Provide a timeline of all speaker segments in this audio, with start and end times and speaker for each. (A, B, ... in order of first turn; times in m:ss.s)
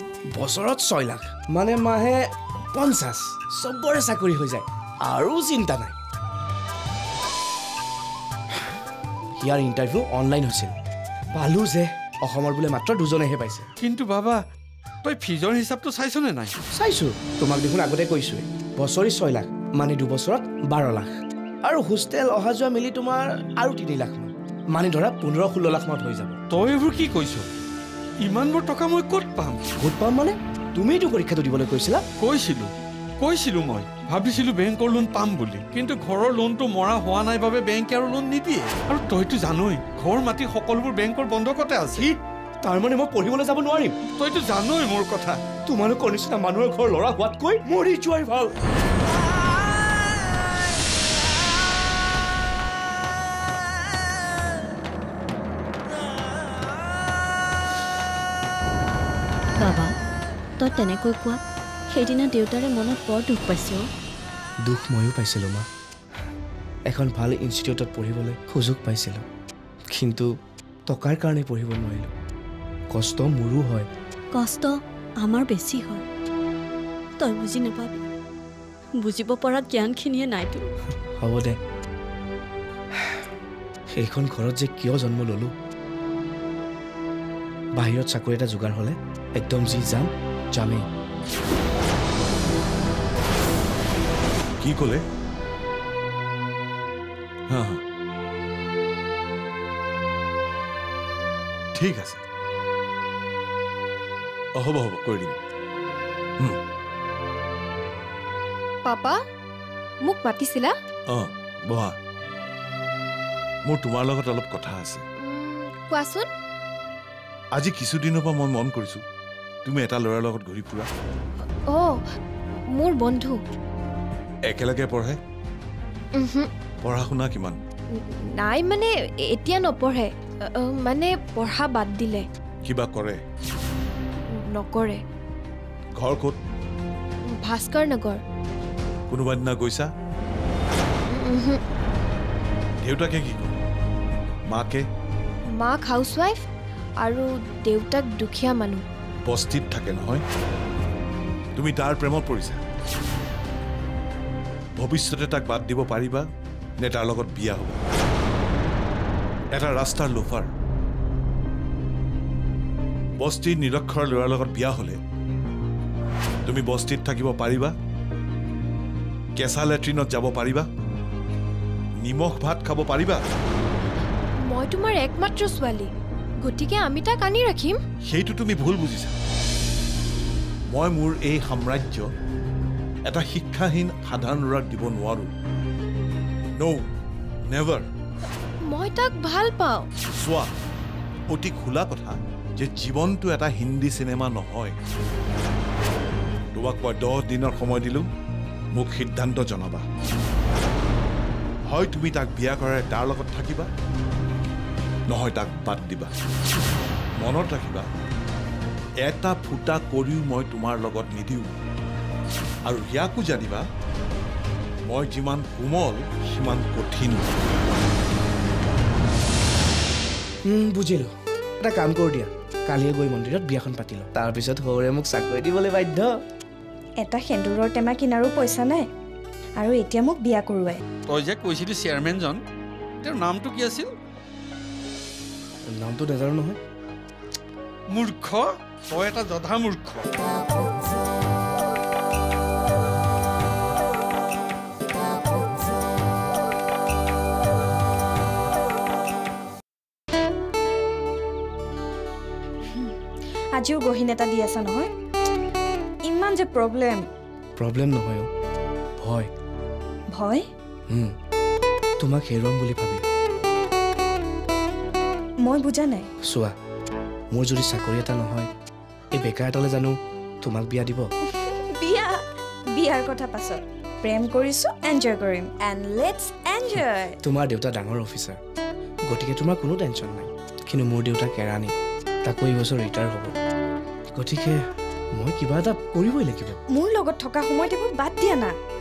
0:00.3-0:02.2 A
0:02.7-0:05.9 A
0:09.4-0:10.7 A
0:11.4-0:13.7 A
0:13.8-0:14.4 B
0:15.0-0:16.6 B
0:16.8-0:21.1 A
0:21.6-0:26.4 A
0:26.5-0:27.5 B
0:28.2-0:29.6 B
0:29.8-0:32.0 A
0:32.2-0:42.1 B
0:42.6-0:44.0 A
0:44.2-0:45.4 B
0:45.7-0:48.5 A
0:59.6-0:59.9 C
1:00.6-1:03.9 C
1:04.7-1:05.7 A
1:06.9-1:09.2 A
1:09.9-1:10.3 A
1:10.9-1:12.1 A
1:12.9-1:13.9 A
1:14.3-1:16.0 C
1:17.2-1:18.0 C
1:19.0-1:20.7 C
1:21.2-1:21.6 A
1:23.0-1:23.2 A
1:24.0-1:25.5 A
1:27.8-1:30.9 A
1:34.6-1:35.0 D
1:37.5-1:37.8 D
1:41.8-1:42.2 D
1:44.6-1:45.4 D
1:48.8-1:49.2 E
1:50.0-1:50.7 E
1:51.1-1:52.0 D
1:53.7-1:55.0 D
1:55.2-1:56.3 E
1:57.5-1:59.0 D
1:59.6-2:00.9 D
2:01.7-2:02.0 E
2:02.8-2:03.4 E
2:04.5-2:05.2 D
2:06.2-2:06.5 E
2:06.8-2:07.6 D
2:08.0-2:12.2 E
2:12.6-2:13.2 D
2:14.5-2:15.0 E
2:16.0-2:16.4 D
2:17.3-2:18.2 E
2:19.1-2:19.9 D
2:21.1-2:21.6 E
2:22.8-2:23.6 D
2:24.5-2:24.8 D
2:25.6-2:26.4 E
2:27.0-2:28.8 E
2:29.3-2:30.2 D
2:31.6-2:32.6 D
2:34.8-2:36.3 D
2:36.8-2:37.8 D
2:39.5-2:40.5 D
2:43.2-2:45.0 D
2:46.5-2:47.7 D
2:49.4-2:50.7 D
2:52.0-2:53.2 D
2:54.5-2:55.9 E
2:56.4-2:57.8 E
2:58.1-2:59.2 D
3:00.7-3:02.1 D
3:03.1-3:05.3 D
3:07.5-3:07.9 D
3:08.7-3:09.9 E
3:10.2-3:10.5 D
3:11.3-3:14.8 D
3:16.6-3:18.0 D
3:18.8-3:19.8 D
3:21.7-3:23.7 D
3:25.1-3:26.1 D
3:27.2-3:27.9 D
3:29.0-3:31.5 D
3:32.7-3:33.6 D
3:34.9-3:37.3 D
3:40.5-3:46.1 A
3:47.0-3:48.9 F
3:49.6-3:50.8 F
3:51.1-3:52.4 B
3:53.0-3:53.9 B
3:55.7-3:56.6 A
3:57.9-4:00.1 B
4:13.6-4:14.9 F
4:16.1-4:17.0 F
4:17.6-4:18.3 A
4:19.0-4:19.3 A
4:20.1-4:20.4 F
4:22.0-4:23.0 A
4:25.4-4:26.1 F
4:26.3-4:26.5 A
4:27.3-4:28.5 A
4:29.2-4:31.1 A
4:31.4-4:32.2 F
4:32.8-4:37.2 F
4:36.8-4:38.4 A
4:39.1-4:41.7 A
4:42.2-4:43.4 A
4:44.2-4:44.6 A
4:45.2-4:46.6 A
4:46.7-4:48.5 F